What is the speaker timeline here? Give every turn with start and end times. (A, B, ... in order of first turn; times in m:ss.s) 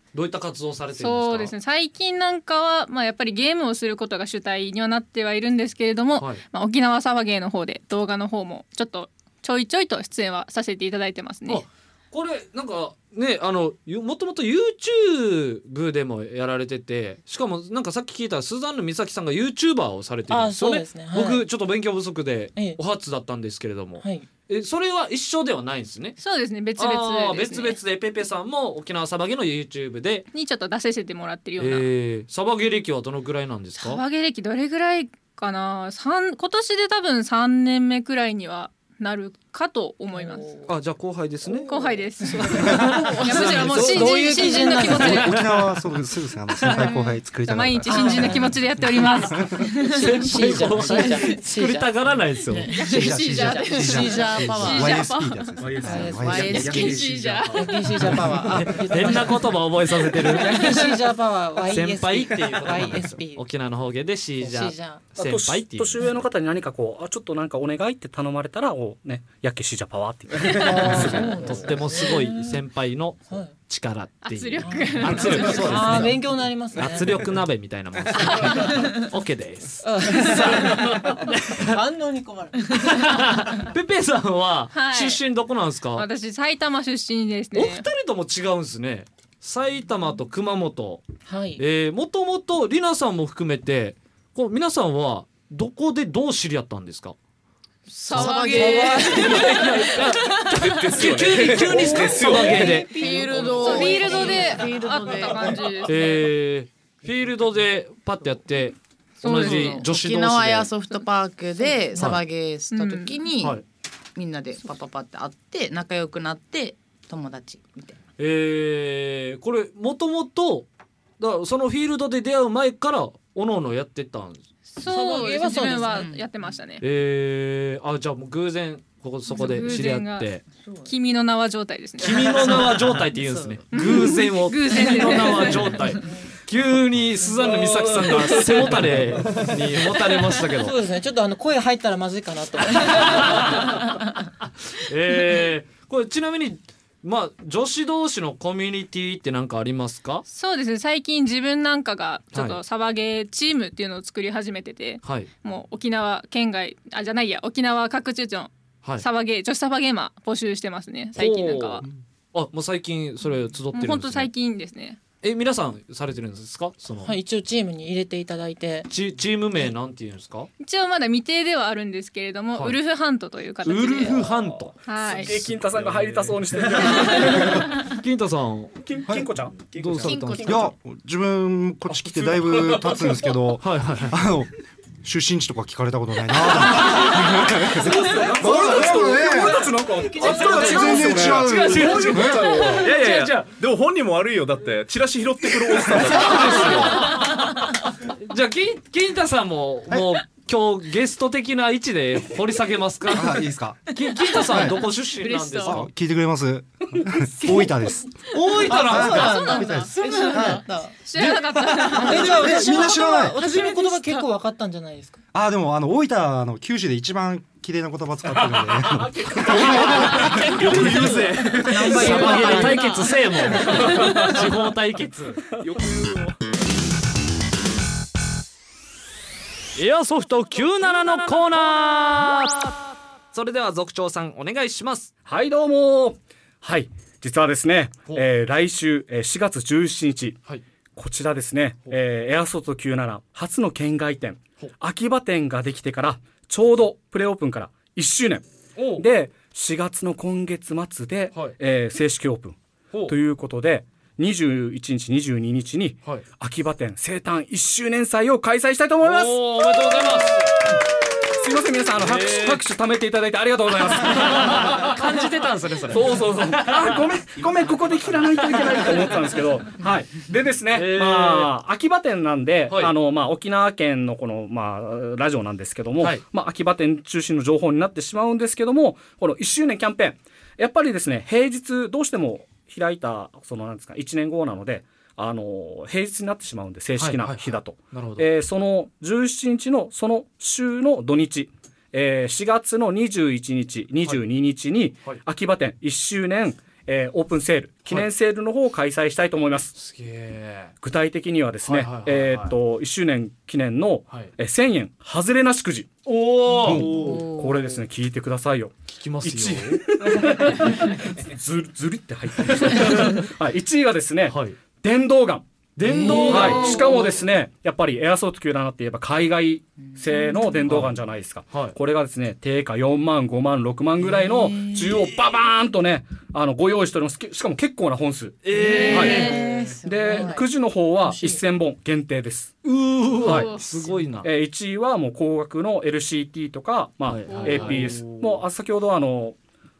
0:00.1-0:01.5 A
0:01.0-0:11.6 B
0:06.2-0:06.4 A
0:11.5-0:26.2 A
0:20.3-0:21.4 C
0:24.0-0:24.2 C
0:26.2-0:27.8 B
0:26.8-0:30.2 A
0:30.3-0:31.8 B
0:31.6-0:34.0 A
0:33.8-0:40.4 B
0:40.1-0:40.7 C
0:40.6-0:41.7 A
0:41.7-0:45.4 B
0:41.7-0:45.4 C
0:42.5-0:44.2 A
0:44.9-0:45.4 A
0:45.0-0:49.6 D
0:46.6-0:51.4 B
0:47.9-0:48.5 C
0:49.5-0:53.6 C
0:50.0-0:52.7 A
0:52.7-0:55.6 B
0:52.8-0:57.0 D
0:53.6-0:55.1 E
0:55.6-0:58.3 F
0:55.8-0:56.8 C
0:56.1-0:57.1 E
0:56.5-0:58.2 B
0:57.5-1:03.4 C
0:58.4-1:00.9 A
1:00.5-1:00.8 B
1:01.7-1:06.0 A
1:04.4-1:05.1 C
1:05.2-1:11.6 G
1:10.5-1:12.6 C
1:10.8-1:21.8 A
1:14.2-1:16.1 B
1:14.6-1:17.2 C
1:18.1-1:18.9 B
1:19.8-1:23.3 C
1:22.7-1:26.0 A
1:24.7-1:25.2 B
1:25.9-1:27.8 B
1:27.5-1:31.0 A
1:31.3-1:31.6 C
1:31.6-1:37.2 A
1:37.9-1:40.7 B
1:38.0-1:39.5 E
1:38.2-1:39.6 C
1:39.1-1:42.9 A
1:40.6-1:42.8 F
1:41.6-1:44.8 C
1:42.4-1:45.7 E
1:43.6-1:46.2 B
1:45.8-1:50.7 A
1:49.2-1:49.9 B
1:49.3-1:53.6 E
1:51.6-1:52.1 B
1:52.0-1:52.2 A
1:52.7-1:53.2 B
1:54.1-1:58.0 E
1:58.2-2:00.7 A
2:01.2-2:04.4 A
2:04.8-2:06.8 B
2:04.8-2:06.1 C
2:05.9-2:06.5 E
2:06.8-2:10.4 A
2:09.3-2:12.7 B
2:10.6-2:10.9 E
2:12.0-2:20.7 A
2:12.2-2:13.6 E
2:13.7-2:15.9 B
2:17.6-2:18.6 G
2:20.5-2:24.0 C
2:22.7-2:30.2 A
2:30.3-2:41.8 B
2:32.3-2:32.6 A
2:35.0-2:35.3 A
2:41.2-2:44.3 A
2:43.7-2:45.0 B
2:45.2-2:47.1 A
2:47.0-2:48.9 C
2:48.9-2:50.5 A
2:50.6-2:54.2 B
2:53.6-2:56.3 A
2:54.8-2:55.3 B
2:55.0-2:57.7 G
2:56.8-2:57.5 B
2:56.9-2:58.8 A
2:58.8-3:00.7 G
2:59.7-3:00.1 F
2:59.7-3:00.6 A
3:00.0-3:00.7 E
3:00.4-3:04.5 D
3:01.9-3:03.1 G
3:03.6-3:04.1 A
3:05.0-3:09.6 D
3:06.8-3:07.1 G
3:07.8-3:12.8 G
3:08.2-3:17.1 F
3:10.3-3:10.7 A
3:10.3-3:12.7 D
3:11.2-3:13.4 A
3:16.0-3:23.4 A
3:23.1-3:23.9 D
3:23.9-3:25.9 A
3:24.4-3:24.8 D
3:25.2-3:25.8 B
3:25.6-3:30.6 D
3:27.4-3:27.7 A
3:28.3-3:29.6 A
3:28.7-3:31.0 C
3:29.1-3:34.2 B
3:31.2-3:33.4 D
3:31.8-3:35.2 C
3:35.3-3:41.6 D
3:38.4-3:40.9 G
3:39.5-3:41.1 A
3:40.5-3:42.6 F
3:41.5-3:43.8 C
3:41.8-3:45.4 A
3:42.1-3:42.6 D
3:42.6-3:43.0 B
3:43.8-3:44.3 G
3:45.6-3:46.4 F
3:49.8-3:52.7 A
3:53.3-3:55.1 A
3:55.3-4:00.4 G
4:01.0-4:08.4 G
4:08.8-4:09.0 A
4:09.0-4:20.8 G
4:19.0-4:20.5 A
4:21.4-4:25.2 G
4:22.0-4:22.6 A
4:24.0-4:27.0 A
4:25.9-4:59.7 G
4:28.4-4:28.9 A
4:30.7-4:31.5 A
4:32.7-4:32.9 A
4:47.0-4:48.3 A
4:59.7-5:00.7 A
5:00.8-5:05.9 G
5:01.6-5:02.6 A
5:06.0-5:07.1 A
5:06.6-5:07.8 E
5:06.6-5:15.5 G
5:06.9-5:07.2 F
5:08.9-5:09.8 A
5:12.4-5:13.1 A
5:14.2-5:14.6 A
5:15.8-5:17.2 A
5:15.8-5:16.8 E
5:16.0-5:32.5 G
5:20.6-5:20.9 A
5:21.5-5:21.8 A
5:24.1-5:24.9 E
5:28.4-5:29.4 A
5:28.5-5:30.5 E
5:28.9-5:29.3 B
5:31.1-5:31.4 E
5:32.6-5:34.3 A
5:33.2-5:33.6 G
5:33.2-5:33.7 B
5:34.2-5:39.4 G
5:37.0-5:38.4 A
5:37.3-5:37.8 B